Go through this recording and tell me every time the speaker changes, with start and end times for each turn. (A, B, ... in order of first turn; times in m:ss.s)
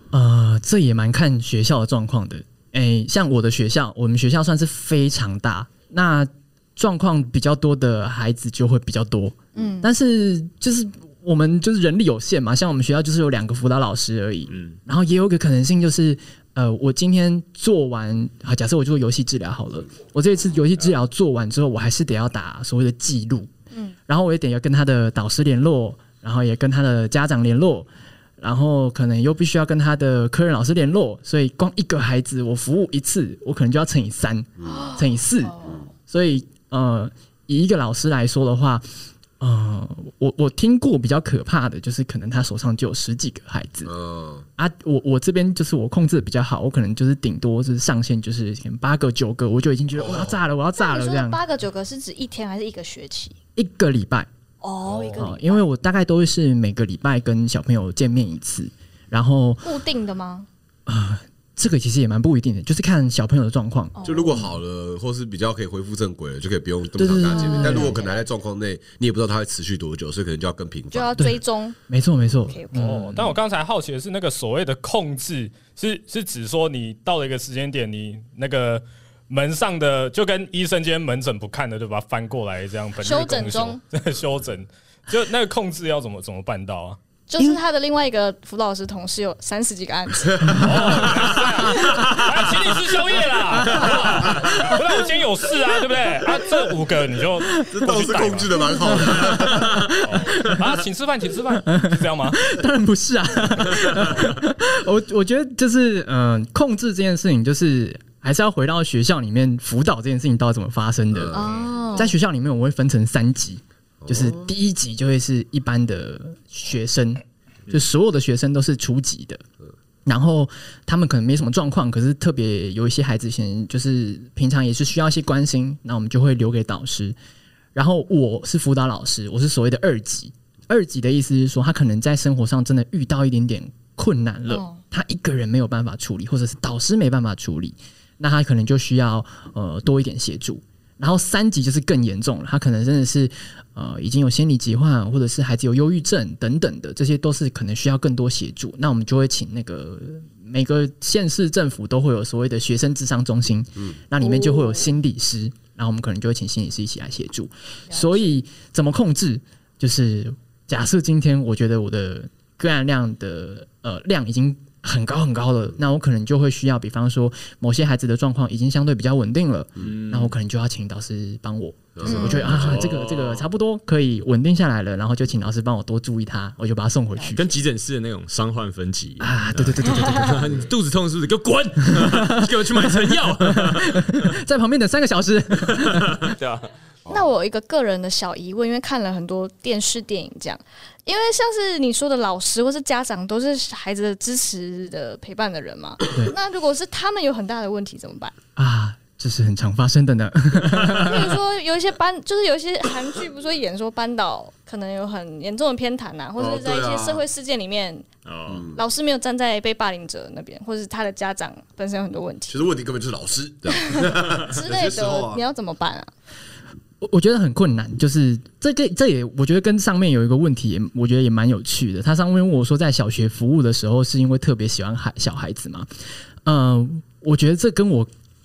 0:00.1-0:23.5 A
0:09.6-0:09.9 B
0:14.5-0:14.8 C
0:24.1-0:27.9 A
0:28.4-0:38.8 A
0:34.6-0:34.9 D
0:34.6-0:35.9 B
0:39.4-0:43.9 A
0:43.8-0:44.4 D
0:44.6-0:51.4 A
0:50.8-0:53.4 B
0:53.6-0:54.3 A
0:54.6-0:55.6 B
0:55.1-0:59.7 A
0:59.6-1:00.5 B
1:00.9-1:04.5 A
1:04.0-1:04.5 B
1:04.0-1:11.3 D
1:07.0-1:08.0 A
1:07.3-1:08.2 B
1:10.9-1:11.8 B
1:11.2-1:13.4 A
1:12.5-1:12.9 B
1:12.8-1:27.0 E
1:23.0-1:23.8 B
1:27.3-1:30.7 B
1:30.6-1:38.9 E
1:31.9-1:32.2 C
1:33.6-1:34.8 A
1:33.8-1:34.4 C
1:37.7-1:39.8 D
1:38.8-1:40.6 A
1:40.0-1:42.4 E
1:41.7-1:59.4 A
1:51.1-1:51.7 D
1:51.3-1:52.1 B
1:54.0-1:54.5 D
2:00.0-2:07.2 A
2:07.8-2:57.5 A
2:14.5-2:14.8 B
2:34.2-2:34.9 B
2:37.9-2:38.4 B
2:49.8-2:50.3 C
2:52.0-2:52.9 D
2:52.0-2:52.6 B
2:52.4-2:53.5 C
2:57.3-3:04.1 C
2:59.2-3:00.6 A
2:59.9-3:00.3 B
3:01.9-3:06.3 A
3:05.9-3:06.3 C
3:06.4-3:06.7 E
3:07.1-3:18.3 B
3:18.6-3:21.4 A
3:21.0-3:28.1 B
3:26.4-3:27.2 D
3:28.2-3:28.7 C
3:28.5-3:28.8 D
3:28.8-3:32.6 B
3:32.5-3:35.4 D
3:33.7-3:36.1 B
3:37.0-3:45.9 A
3:46.4-3:48.1 A